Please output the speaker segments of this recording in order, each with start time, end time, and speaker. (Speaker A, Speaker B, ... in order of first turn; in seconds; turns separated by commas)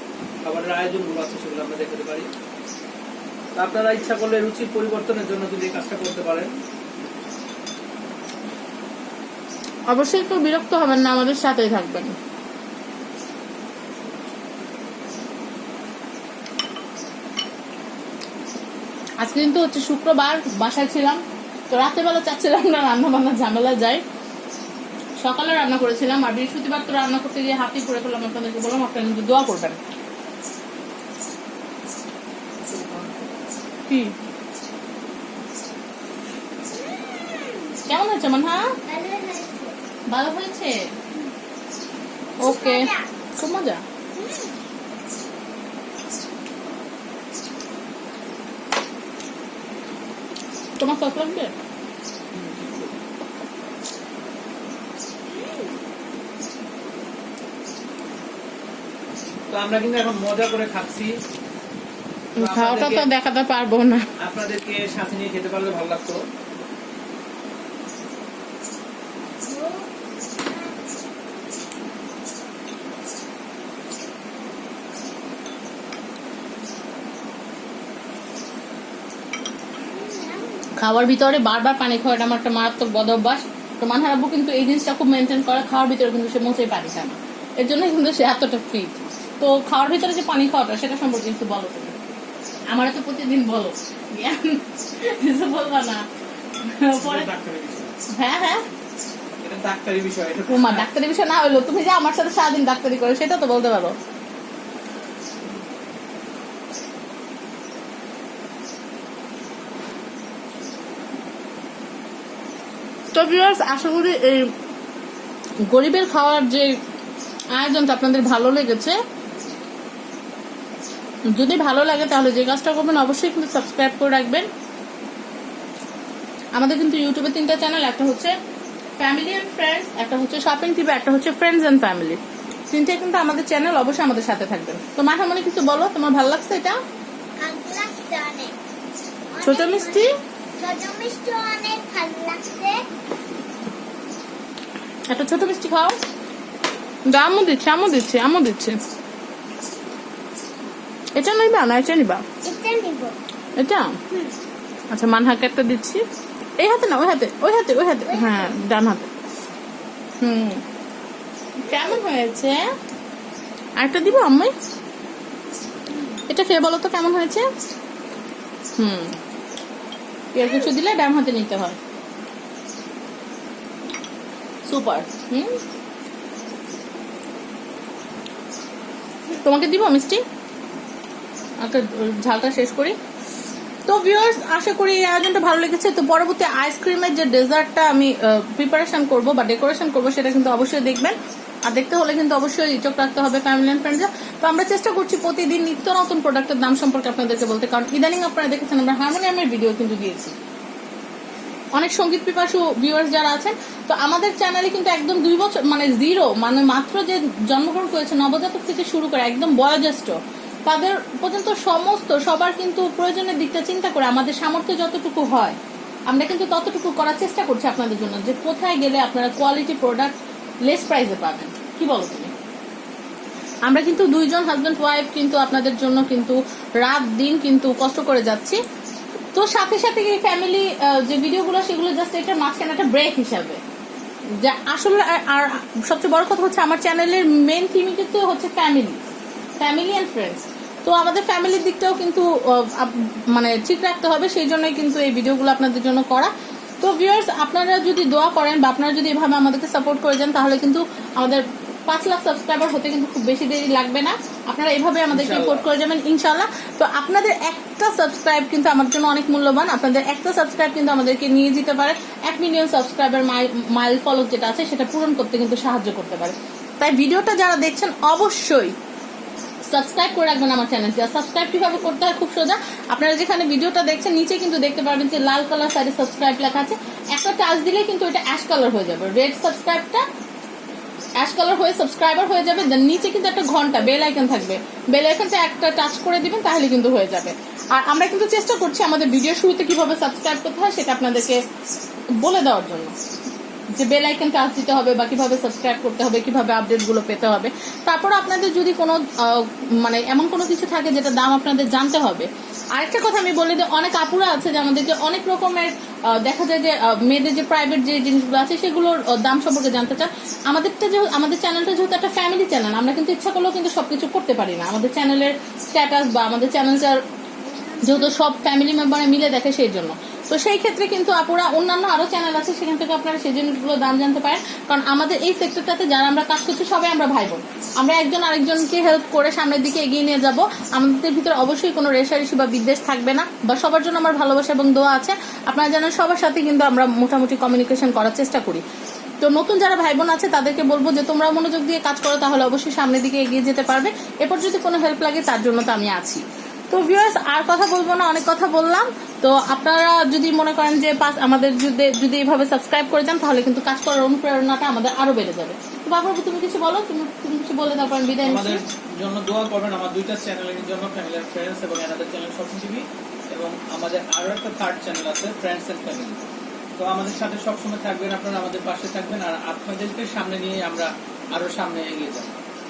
Speaker A: 0.4-2.3, Speaker A: 3.5-6.5, Speaker B: 9.9-12.2, Speaker B: 19.2-24.0, Speaker B: 25.2-29.8, Speaker A: 32.6-33.3, Speaker B: 33.9-34.1, Speaker C: 36.9-37.8, Speaker B: 37.9-38.8, Speaker C: 38.9-39.8, Speaker B: 40.1-40.8, Speaker C: 42.4-43.1, Speaker B: 42.4-43.8, Speaker C: 44.2-44.5, Speaker B: 50.8-51.5, Speaker A: 52.3-52.9, Speaker A: 59.5-61.1, Speaker A: 62.4-63.1, Speaker B: 62.4-64.1, Speaker A: 64.2-66.2, Speaker C: 69.5-71.0, Speaker C: 79.9-80.7, Speaker B: 80.8-92.0, Speaker B: 92.7-96.0, Speaker B: 96.6-97.3, Speaker A: 97.0-98.0, Speaker B: 98.2-98.6, Speaker A: 99.4-100.9, Speaker B: 100.5-104.0, Speaker B: 113.1-114.5, Speaker B: 115.7-116.8, Speaker B: 117.5-119.0, Speaker B: 121.3-124.5, Speaker B: 126.5-128.3, Speaker B: 129.0-132.2, Speaker B: 132.7-136.8, Speaker C: 137.4-138.5, Speaker C: 139.3-142.8, Speaker B: 139.4-140.1, Speaker B: 145.1-146.0, Speaker B: 147.1-148.8, Speaker B: 151.2-152.3, Speaker C: 152.4-153.2, Speaker B: 153.6-154.0, Speaker B: 154.9-156.1, Speaker B: 156.6-159.1, Speaker C: 158.2-158.5, Speaker B: 160.2-160.6, Speaker B: 161.6-162.7, Speaker B: 163.8-164.5, Speaker B: 166.3-167.5, Speaker B: 168.8-169.2, Speaker B: 170.3-171.8, Speaker B: 174.7-175.6, Speaker B: 179.3-180.2, Speaker B: 181.6-183.0, Speaker B: 183.9-200.3, Speaker B: 201.8-215.6, Speaker B: 216.1-222.3, Speaker B: 223.7-228.6, Speaker B: 229.3-233.6, Speaker B: 234.4-239.0, Speaker B: 239.6-268.8, Speaker A: 255.1-255.7, Speaker B: 269.7-280.1, Speaker B: 281.2-291.4, Speaker B: 292.2-292.9, Speaker B: 293.8-317.0, Speaker C: 317.5-318.2, Speaker B: 317.8-338.6, Speaker B: 339.2-358.6, Speaker A: 358.2-366.2, Speaker A: 366.8-372.4